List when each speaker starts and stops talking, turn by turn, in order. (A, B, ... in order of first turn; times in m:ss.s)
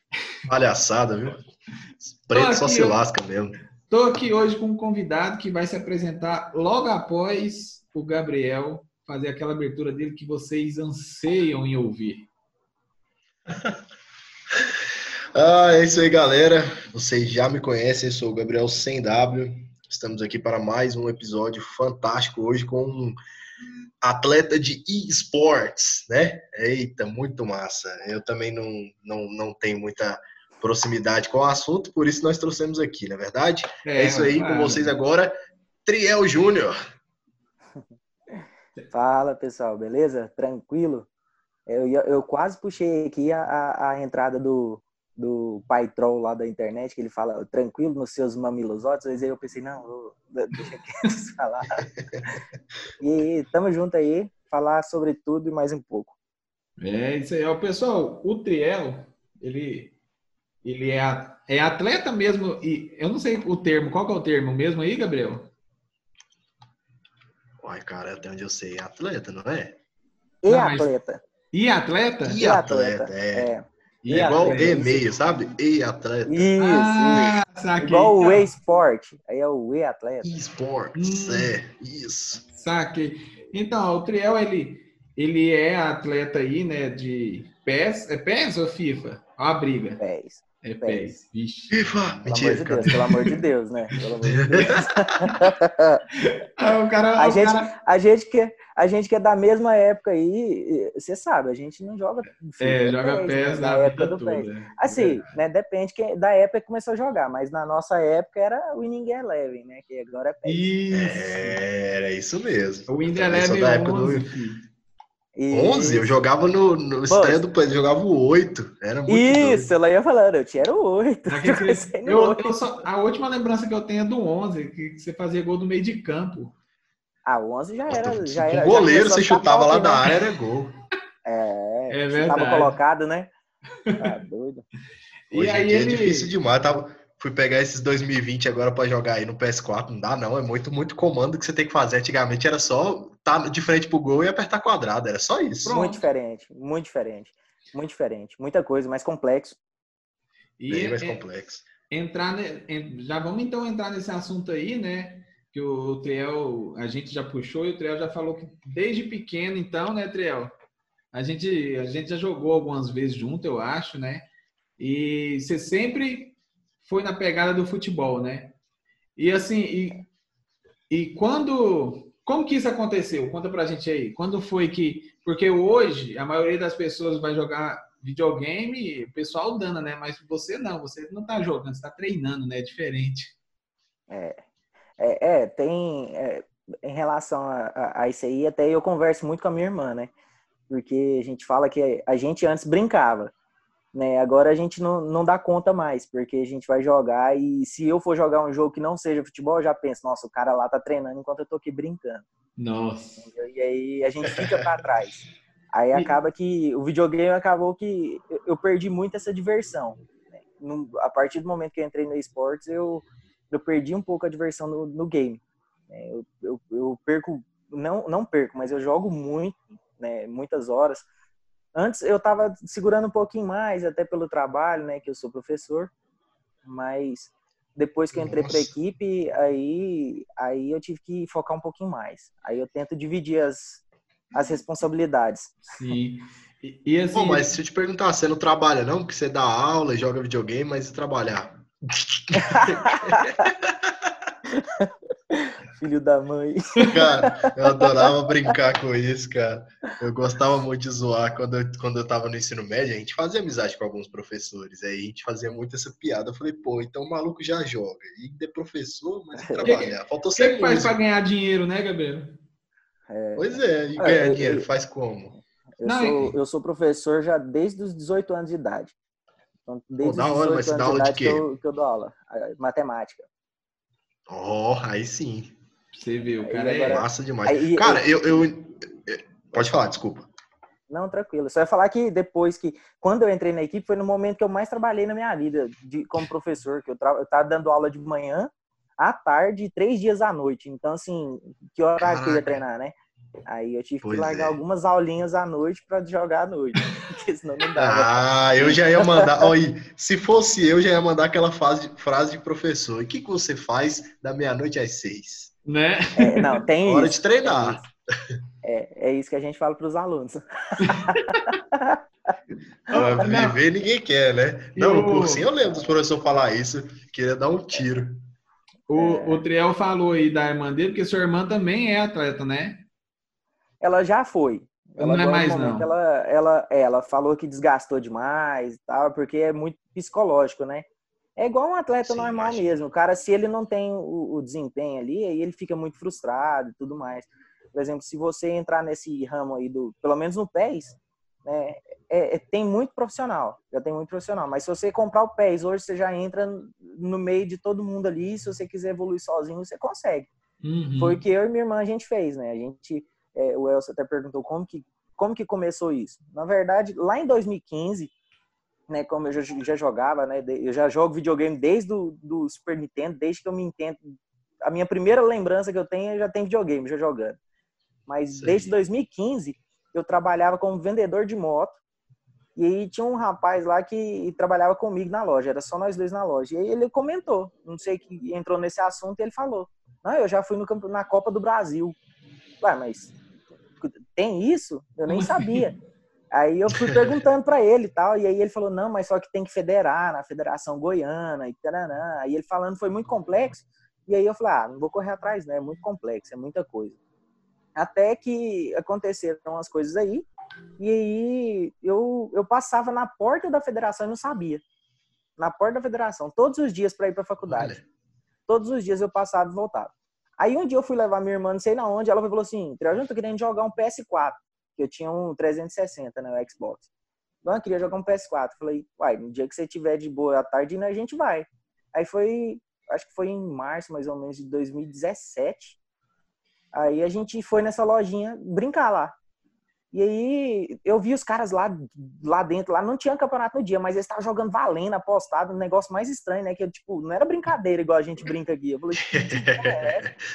0:00.5-0:01.4 A
0:02.0-0:03.6 A
0:02.3-0:03.0 B
0:03.9-0:12.3 B
0:13.5-0:13.8 A
0:14.5-0:14.8 A
0:15.3-0:23.2 A
0:24.0-0:35.3 A
0:33.8-0:34.9 B
0:35.8-0:36.8 A
0:38.9-0:41.1 C
0:41.7-0:51.8 C
0:53.0-0:56.1 C
0:56.8-0:59.9 B
1:00.6-1:05.5 B
1:07.6-1:09.8 A
1:10.4-1:11.2 C
1:10.5-1:10.9 B
1:11.5-1:12.4 B
1:12.2-1:13.5 A
1:12.3-1:15.0 C
1:14.0-1:16.5 A
1:14.0-1:14.8 B
1:16.3-1:20.3 C
1:16.6-1:18.5 B
1:20.2-1:22.4 A
1:20.9-1:21.5 B
1:22.6-1:30.0 B
1:30.0-1:31.1 C
1:30.6-1:31.9 B
1:31.7-1:33.0 A
1:32.2-1:36.0 C
1:32.8-1:33.2 B
1:34.2-1:35.3 A
1:36.2-1:37.7 B
1:37.2-1:50.6 C
1:42.6-1:45.3 B
1:50.4-1:51.6 B
1:50.9-1:54.3 A
1:52.9-1:54.6 B
1:55.4-1:56.2 C
1:55.5-1:59.7 A
1:57.1-1:57.4 C
1:59.1-2:02.7 C
2:01.3-2:06.5 B
2:07.2-2:10.1 C
2:07.9-2:10.7 A
2:11.2-2:13.3 C
2:11.9-2:12.8 B
2:14.0-2:14.6 C
2:15.3-2:16.3 B
2:15.3-2:25.8 A
2:25.6-2:26.0 B
2:25.7-2:29.6 C
2:30.6-2:31.2 B
2:30.7-2:31.6 A
2:31.9-2:40.5 B
2:41.1-2:48.5 B
2:49.2-2:50.0 B
2:50.9-3:03.3 B
3:04.1-3:04.4 C
3:05.0-3:10.1 C
3:10.7-3:13.3 C
3:13.9-3:22.2 C
3:22.6-3:23.2 B
3:23.2-3:30.0 C
3:30.6-3:41.0 C
3:41.7-3:45.9 C
3:46.6-3:53.8 C
3:48.1-3:48.7 A
3:54.3-3:55.6 C
3:55.7-3:57.5 B
3:57.1-4:04.1 A
4:02.4-4:03.4 C
4:04.5-4:07.9 C
4:06.9-4:20.9 A
4:19.4-4:19.8 C
4:19.6-4:22.4 B
4:23.1-4:24.7 C
4:23.4-4:25.3 A
4:25.8-4:28.9 C
4:25.8-4:26.3 B
4:29.7-4:33.2 C
4:30.0-4:31.4 A
4:34.3-4:35.5 A
4:35.9-4:37.0 B
4:36.4-4:38.1 C
4:36.9-4:40.3 A
4:40.9-4:52.9 C
4:52.0-4:52.6 A
4:53.5-4:59.5 C
4:54.0-4:54.6 A
4:57.8-5:05.5 A
5:05.6-5:06.6 B
5:06.2-5:07.9 C
5:06.8-5:08.4 A
5:08.6-5:12.0 C
5:10.8-5:11.2 B
5:12.9-5:13.6 B
5:12.9-5:18.2 A
5:14.8-5:15.5 B
5:18.9-5:22.8 B
5:19.0-5:19.4 C
5:23.8-5:50.3 C
5:25.0-5:25.9 B
5:32.0-5:32.7 A
5:50.6-5:51.2 B
5:51.0-5:58.1 C
5:58.9-6:07.4 C
6:08.1-6:11.8 C
6:08.3-6:08.7 A
6:12.6-6:22.0 C
6:22.6-6:23.1 C
6:23.8-6:25.7 C
6:25.1-6:25.7 B
6:26.3-6:37.0 C
6:37.8-6:40.2 C
6:40.8-6:44.6 C
6:45.4-6:47.8 C
6:47.4-6:47.8 A
6:48.5-6:56.9 C
6:57.4-7:05.8 C
7:06.7-7:09.1 C
7:09.9-7:20.1 C
7:19.1-7:20.1 A